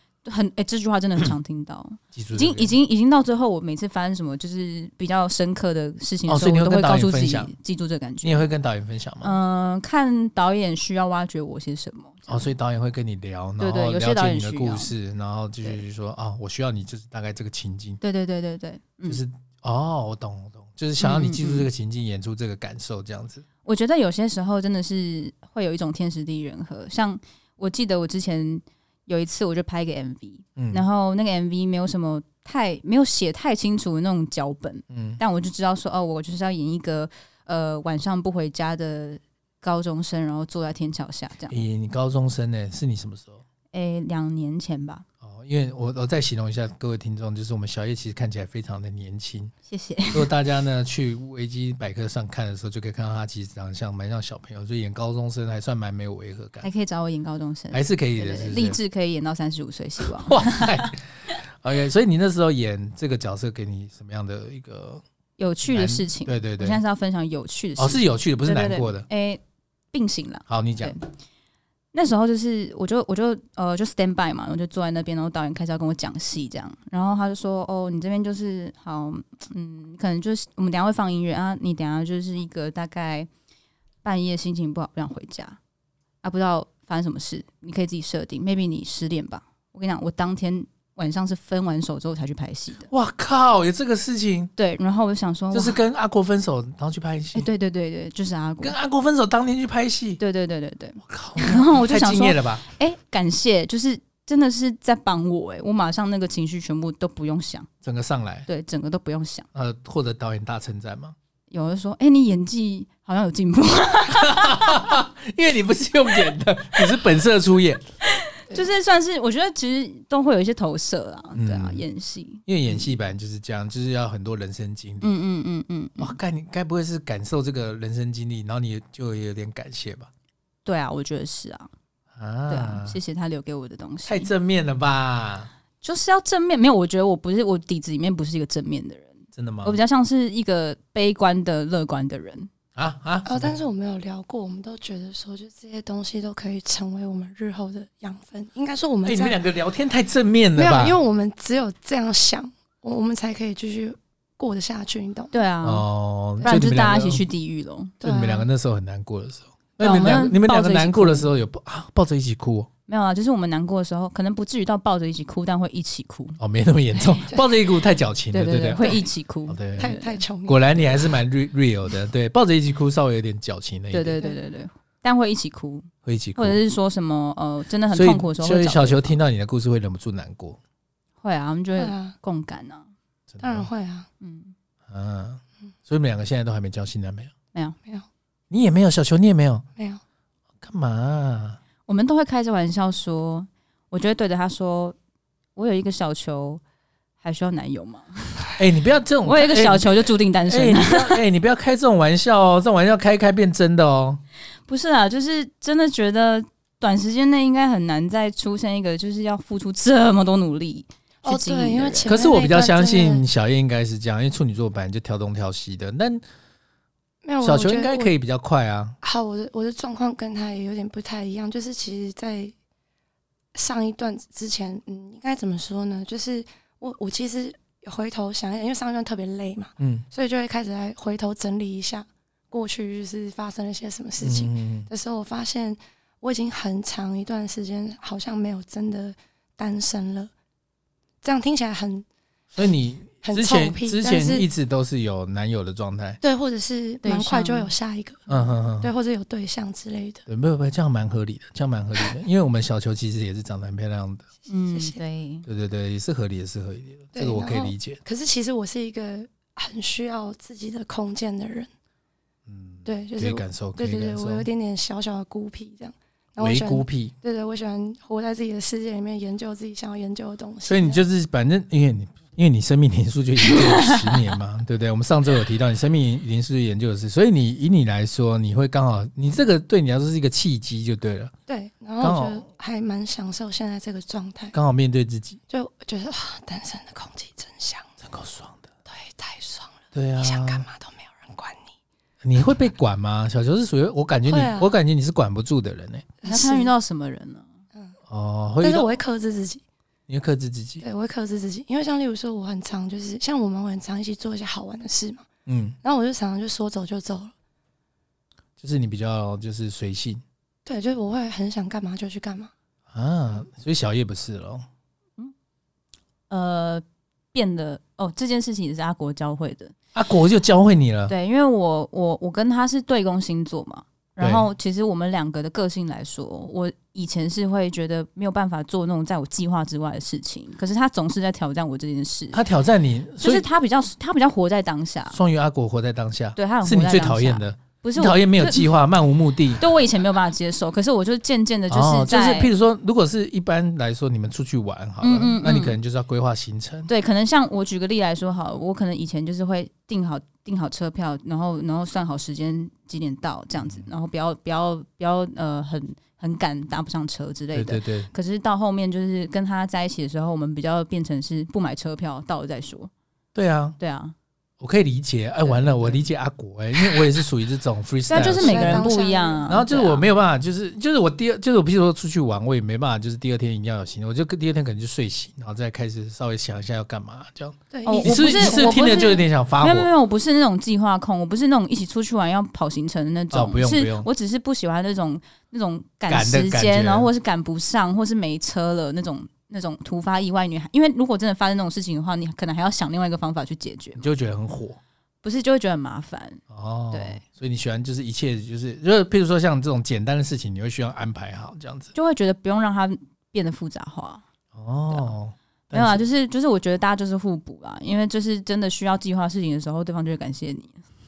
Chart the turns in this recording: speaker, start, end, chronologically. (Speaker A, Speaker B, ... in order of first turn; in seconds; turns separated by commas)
Speaker A: 0.2-8.5, Speaker B: 2.1-2.7, Speaker B: 6.3-7.5, Speaker B: 8.2-9.4, Speaker A: 9.2-12.5, Speaker B: 12.3-18.0, Speaker A: 13.6-14.9, Speaker A: 18.0-19.2, Speaker B: 19.1-23.4, Speaker A: 21.0-21.7, Speaker A: 23.6-41.5, Speaker B: 30.6-30.8, Speaker B: 34.9-35.2, Speaker B: 41.5-43.4, Speaker A: 43.7-45.0, Speaker B: 45.2-49.5, Speaker A: 49.7-50.3, Speaker B: 50.1-56.7, Speaker A: 56.6-60.9, Speaker B: 57.7-58.8, Speaker B: 60.0-61.0, Speaker B: 61.6-65.0, Speaker A: 65.4-69.4, Speaker B: 65.7-66.8, Speaker B: 67.8-69.1, Speaker A: 69.9-71.0, Speaker B: 70.5-70.9, Speaker A: 71.9-83.3, Speaker A: 84.0-85.6, Speaker A: 86.2-92.9, Speaker B: 92.9-94.5, Speaker A: 94.5-95.8, Speaker B: 95.5-97.5, Speaker A: 97.3-98.8, Speaker B: 98.6-100.2, Speaker A: 100.2-107.7, Speaker B: 101.0-102.6, Speaker B: 107.8-108.5, Speaker A: 108.5-109.5, Speaker B: 109.5-111.1, Speaker A: 111.5-115.0, Speaker B: 114.1-117.8, Speaker A: 118.0-122.9, Speaker B: 121.3-121.8, Speaker B: 122.5-125.1, Speaker A: 125.0-126.2, Speaker B: 126.0-130.1, Speaker A: 130.6-131.7, Speaker B: 132.1-133.0, Speaker A: 132.5-134.3, Speaker B: 134.1-135.5, Speaker A: 135.8-142.5, Speaker B: 139.3-139.8, Speaker B: 142.7-143.6, Speaker C: 143.2-149.4, Speaker B: 149.0-151.0, Speaker C: 150.6-155.3, Speaker A: 155.3-155.8, Speaker B: 155.6-157.2, Speaker A: 156.4-157.9, Speaker C: 158.0-158.5, Speaker B: 158.0-162.7, Speaker A: 159.8-161.3, Speaker A: 162.9-166.4, Speaker B: 166.4-169.9, Speaker A: 168.3-170.2, Speaker C: 169.8-170.9, Speaker B: 170.4-174.2, Speaker A: 173.9-179.2, Speaker B: 176.0-176.6, Speaker B: 177.9-180.6, Speaker A: 181.2-182.9, Speaker C: 181.8-182.2, Speaker B: 183.3-183.7, Speaker C: 183.4-184.1, Speaker A: 184.2-184.5, Speaker B: 184.9-187.3, Speaker B: 188.5-189.7, Speaker B: 190.6-191.6, Speaker A: 191.9-194.9, Speaker A: 195.6-196.6, Speaker A: 197.2-198.6, Speaker B: 198.6-204.2, Speaker A: 199.2-201.2, Speaker A: 204.7-212.1, Speaker C: 211.2-213.2, Speaker B: 212.1-216.2, Speaker C: 217.2-218.1, Speaker B: 217.4-219.0, Speaker C: 219.0-222.5, Speaker C: 223.5-240.3, Speaker B: 229.8-230.0, Speaker B: 234.2-234.9, Speaker C: 241.2-242.0, Speaker B: 242.5-246.2, Speaker C: 243.2-244.5, Speaker C: 246.2-250.2, Speaker A: 247.0-247.7, Speaker B: 248.3-248.9, Speaker B: 250.3-254.3, Speaker A: 254.5-255.4, Speaker C: 254.7-255.0, Speaker B: 255.4-258.0, Speaker C: 257.1-261.7, Speaker B: 262.4-264.5, Speaker C: 262.8-271.0, Speaker B: 266.4-267.1, Speaker B: 270.7-281.3, Speaker A: 273.5-274.0, Speaker C: 281.5-284.5, Speaker B: 282.0-282.4, Speaker B: 284.5-285.4, Speaker C: 285.5-287.9, Speaker B: 288.0-288.7, Speaker C: 288.9-291.7, Speaker B: 289.9-290.6, Speaker B: 292.2-296.1, Speaker C: 294.3-294.7, Speaker C: 296.2-296.7, Speaker A: 296.2-297.5, Speaker B: 298.1-298.9, Speaker C: 298.6-299.6, Speaker B: 300.1-300.8, Speaker C: 300.8-305.3, Speaker B: 305.4-305.8, Speaker C: 305.8-307.3, Speaker B: 308.6-310.2, Speaker C: 310.6-312.5, Speaker B: 312.9-314.6, Speaker A: 316.3-319.7, Speaker B: 319.9-321.1, Speaker A: 321.1-332.4, Speaker B: 324.2-324.5, Speaker B: 332.3-333.4, Speaker A: 333.2-335.2, Speaker B: 335.1-339.6, Speaker A: 336.4-338.7, Speaker A: 339.6-342.5, Speaker B: 341.7-346.9, Speaker A: 345.0-345.8, Speaker A: 346.9-362.9, Speaker B: 353.6-353.9, Speaker B: 357.5-358.1, Speaker B: 363.3-363.8, Speaker A: 363.8-364.1, Speaker B: 364.6-368.9, Speaker A: 365.4-366.1, Speaker A: 368.1-370.0, Speaker C: 368.1-369.4, Speaker B: 369.5-379.9, Speaker C: 377.7-379.1, Speaker A: 377.9-394.1, Speaker B: 383.3-384.1, Speaker B: 386.1-387.1, Speaker B: 394.0-394.8, Speaker A: 395.2-397.2, Speaker B: 396.5-401.9, Speaker A: 401.9-404.2, Speaker B: 404.5-406.0, Speaker A: 405.7-410.8